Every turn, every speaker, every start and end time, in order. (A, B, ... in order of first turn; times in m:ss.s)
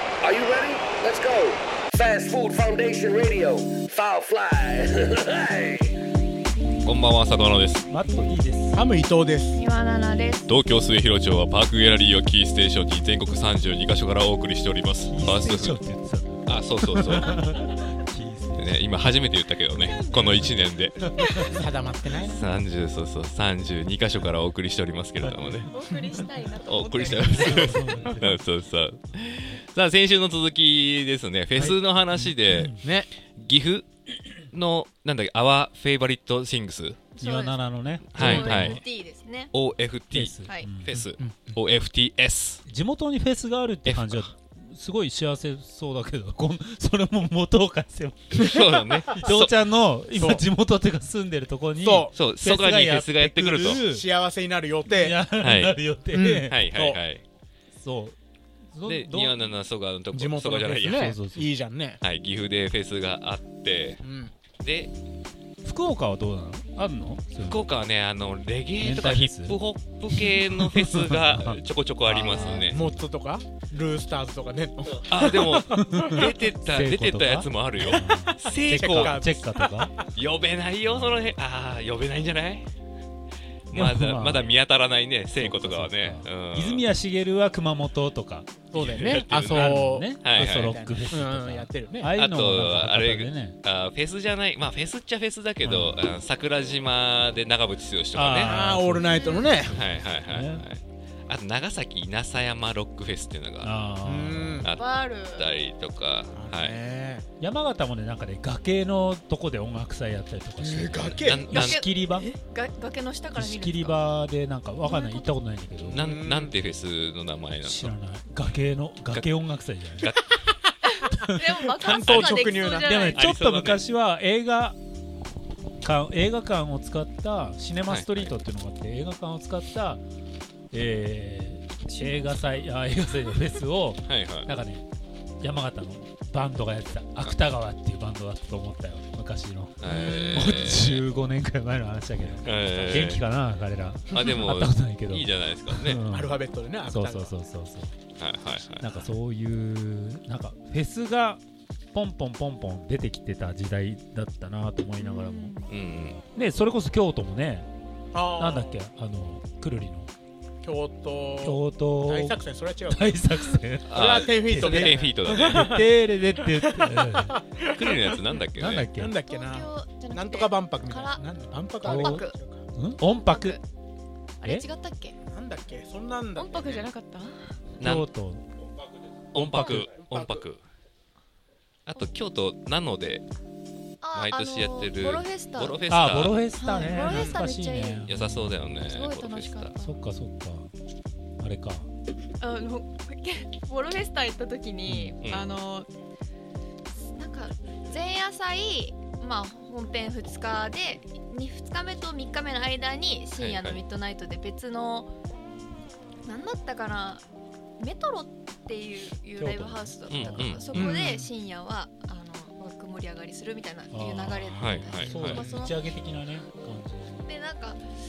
0:00.2-0:06.0 A
0:06.8-0:07.8 B
0:07.9-0:08.8 C
0:08.7-0:09.6 D
0:09.5-0:10.5 E
0:10.5-0:15.8 B
0:15.0-0:18.9 C
0:16.4-0:17.4 B
0:18.6-0:21.7 B
0:19.7-0:20.3 E
0:20.1-0:20.5 C
0:21.2-0:21.4 C
0:21.4-0:22.5 D
0:22.2-0:25.7 B
0:25.2-0:25.6 C
0:25.7-0:27.9 E
0:26.6-0:33.9 B
0:27.0-0:28.4 C
0:31.6-0:32.8 C
0:32.8-0:33.1 D
0:34.5-0:37.0 B
0:37.2-0:37.6 E
0:37.2-0:38.8 C
0:38.1-0:38.8 B
0:38.1-0:39.5 E
0:39.5-0:42.6 B
0:40.1-0:41.0 C
0:41.0-0:41.6 D
0:42.7-0:48.4 C
0:43.8-0:44.3 B
0:48.4-0:49.6 B
0:49.1-0:54.1 C
0:50.2-0:50.4 D
0:51.8-0:52.1 D
0:52.1-0:53.8 B
0:53.6-0:55.2 D
0:54.9-0:56.6 C
0:55.4-0:55.8 B
0:56.1-0:57.0 D
0:56.4-0:57.2 B
0:57.7-0:58.2 C
0:58.7-0:59.5 C
0:58.8-1:01.1 B
1:00.1-1:02.0 D
1:00.9-1:01.5 C
1:02.0-1:04.0 B
1:04.0-1:04.3 D
1:04.6-1:04.9 B
1:05.6-1:07.6 C
1:07.4-1:12.8 B
1:08.8-1:09.6 C
1:10.2-1:12.9 C
1:12.3-1:16.3 D
1:15.0-1:19.2 B
1:15.7-1:19.9 C
1:17.8-1:20.0 D
1:20.1-1:22.7 B
1:20.8-1:21.4 C
1:23.7-1:26.9 B
1:23.7-1:24.5 C
1:25.3-1:28.6 C
1:28.7-1:32.1 D
1:28.7-1:31.0 B
1:29.4-1:33.6 C
1:32.1-1:38.6 B
1:35.6-1:36.0 C
1:38.1-1:40.6 C
1:38.4-1:39.8 D
1:39.2-1:39.6 E
1:39.7-1:43.7 B
1:43.6-1:44.7 C
1:44.0-1:44.7 D
1:44.6-1:46.8 B
1:44.7-1:45.5 E
1:46.3-1:47.2 D
1:47.4-1:52.3 C
1:50.6-1:51.6 D
1:51.2-1:51.9 B
1:51.5-1:54.1 E
1:53.3-1:56.0 C
1:54.8-1:55.4 E
1:55.9-1:57.9 B
1:55.9-1:56.6 D
1:57.6-2:00.1 C
2:00.0-2:00.4 B
2:00.4-2:03.0 D
2:00.8-2:03.2 E
2:01.8-2:02.5 B
2:02.8-2:04.8 C
2:03.1-2:03.8 B
2:05.8-2:10.0 C
2:07.8-2:08.3 B
2:10.7-2:14.8 C
2:11.9-2:12.4 E
2:14.1-2:14.5 B
2:15.4-2:27.9 C
2:19.8-2:21.0 B
2:19.8-2:20.8 D
2:22.4-2:23.2 B
2:24.1-2:26.0 B
2:26.1-2:27.3 D
2:28.2-2:29.1 B
2:28.8-2:31.4 C
2:31.9-2:35.6 C
2:35.0-2:35.7 E
2:35.7-2:36.2 B
2:36.3-2:37.7 C
2:38.1-2:38.8 D
2:38.3-2:40.1 C
2:40.6-2:43.3 D
2:41.4-2:47.4 C
2:43.9-2:45.7 B
2:43.9-2:48.2 D
2:47.6-2:48.9 B
2:48.5-2:49.1 C
2:48.9-2:52.6 D
2:49.2-2:52.4 E
2:51.8-2:52.2 C
2:52.7-2:53.6 C
2:53.0-2:53.6 E
2:54.4-2:55.2 E
2:55.3-2:56.6 D
2:56.4-2:57.4 E
2:57.8-2:58.1 B
2:57.8-2:58.4 C
2:59.3-3:00.6 B
2:59.3-2:59.9 C
3:01.8-3:03.2 B
3:04.0-3:05.8 E
3:04.1-3:06.4 B
3:05.9-3:08.8 C
3:06.6-3:08.1 E
3:07.0-3:07.4 D
3:08.1-3:09.8 B
3:08.8-3:10.0 E
3:09.8-3:10.7 C
3:11.4-3:11.9 C
3:12.4-3:15.9 E
3:14.9-3:15.2 C
3:15.2-3:15.5 B
3:17.1-3:25.1 E
3:23.3-3:23.8 B
3:26.2-3:27.2 E
3:27.8-3:35.8 E
3:29.4-3:30.9 C
3:30.1-3:30.8 B
3:30.7-3:31.3 D
3:33.9-3:37.3 C
3:34.5-3:35.4 B
3:37.2-3:37.8 E